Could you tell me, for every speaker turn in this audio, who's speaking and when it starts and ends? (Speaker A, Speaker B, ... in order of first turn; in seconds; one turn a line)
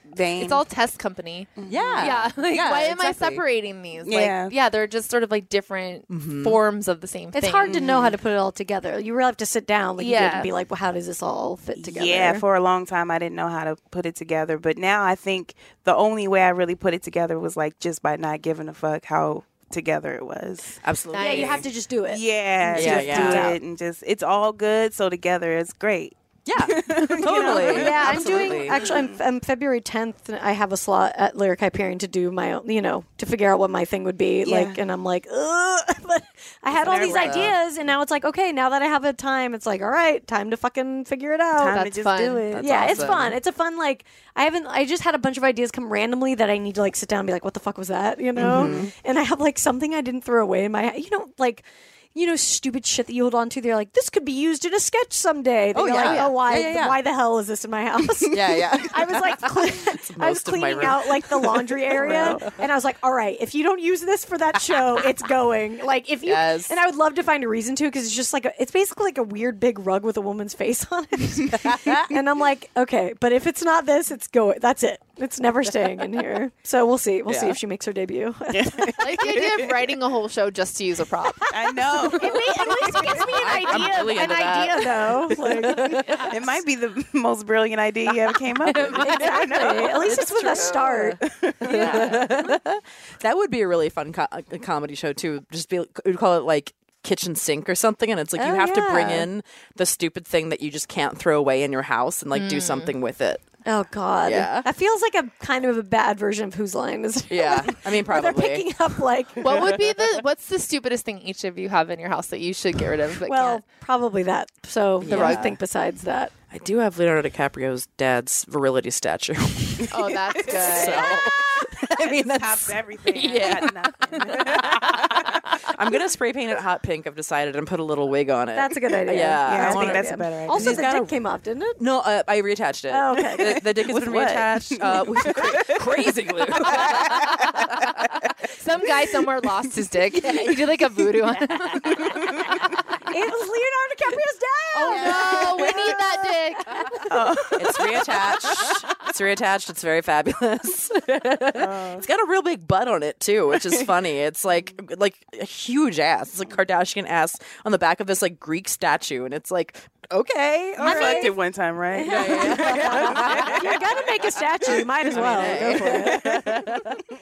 Speaker A: 0.1-0.7
Speaker B: 0.4-7.8
Speaker A: 1.6-2.1
Speaker C: 1.7-3.4
Speaker A: 4.0-4.5
Speaker C: 6.1-6.6
Speaker D: 7.3-12.4
Speaker A: 7.7-8.2
Speaker B: 10.0-10.5
Speaker A: 11.8-20.8
Speaker C: 20.8-21.7
Speaker B: 21.1-21.6
Speaker D: 21.2-23.6
Speaker A: 22.1-29.2
Speaker C: 22.8-23.5
Speaker C: 26.5-28.9
Speaker D: 27.3-41.8
Speaker A: 34.4-34.8
Speaker A: 36.7-37.6
Speaker C: 36.8-37.6
Speaker A: 41.5-43.2
Speaker B: 41.6-42.6
Speaker C: 42.5-43.4
Speaker D: 42.6-79.3
Speaker C: 48.4-48.9
Speaker A: 48.4-48.8
Speaker C: 55.7-57.0
Speaker B: 56.0-56.3
Speaker C: 58.2-62.5
Speaker A: 61.9-62.5
Speaker C: 66.2-66.8
Speaker C: 71.6-72.0
Speaker C: 77.3-77.6
Speaker A: 78.5-79.6
Speaker B: 79.0-81.5
Speaker A: 81.5-83.2
Speaker B: 82.0-84.8
Speaker D: 82.0-86.3
Speaker C: 83.2-86.3
Speaker A: 86.3-90.5
Speaker B: 88.7-89.5
Speaker D: 88.9-91.2
Speaker C: 89.8-103.5
Speaker A: 91.2-92.2
Speaker B: 91.6-92.3
Speaker D: 98.4-99.3
Speaker B: 102.3-102.9
Speaker D: 103.7-109.8
Speaker C: 104.2-104.7
Speaker C: 107.3-108.7
Speaker B: 109.4-113.6
Speaker C: 109.5-109.8
Speaker D: 113.2-116.3
Speaker C: 115.0-115.6
Speaker B: 115.1-115.5
Speaker C: 116.5-131.2
Speaker B: 119.9-121.4
Speaker A: 120.8-125.4
Speaker B: 123.4-123.7
Speaker D: 128.6-131.8
Speaker A: 129.4-130.8
Speaker C: 131.8-137.9
Speaker D: 132.9-133.6
Speaker A: 133.4-136.0
Speaker A: 136.5-137.6
Speaker B: 136.7-137.0
Speaker B: 138.6-142.6
Speaker D: 143.1-147.1
Speaker B: 144.7-147.3
Speaker C: 144.9-145.7
Speaker A: 147.1-148.2
Speaker C: 147.6-161.3
Speaker A: 151.5-152.1
Speaker A: 160.8-164.0
Speaker D: 160.8-161.3
Speaker D: 161.9-166.6
Speaker C: 162.0-164.0
Speaker A: 164.8-166.7
Speaker C: 165.1-167.0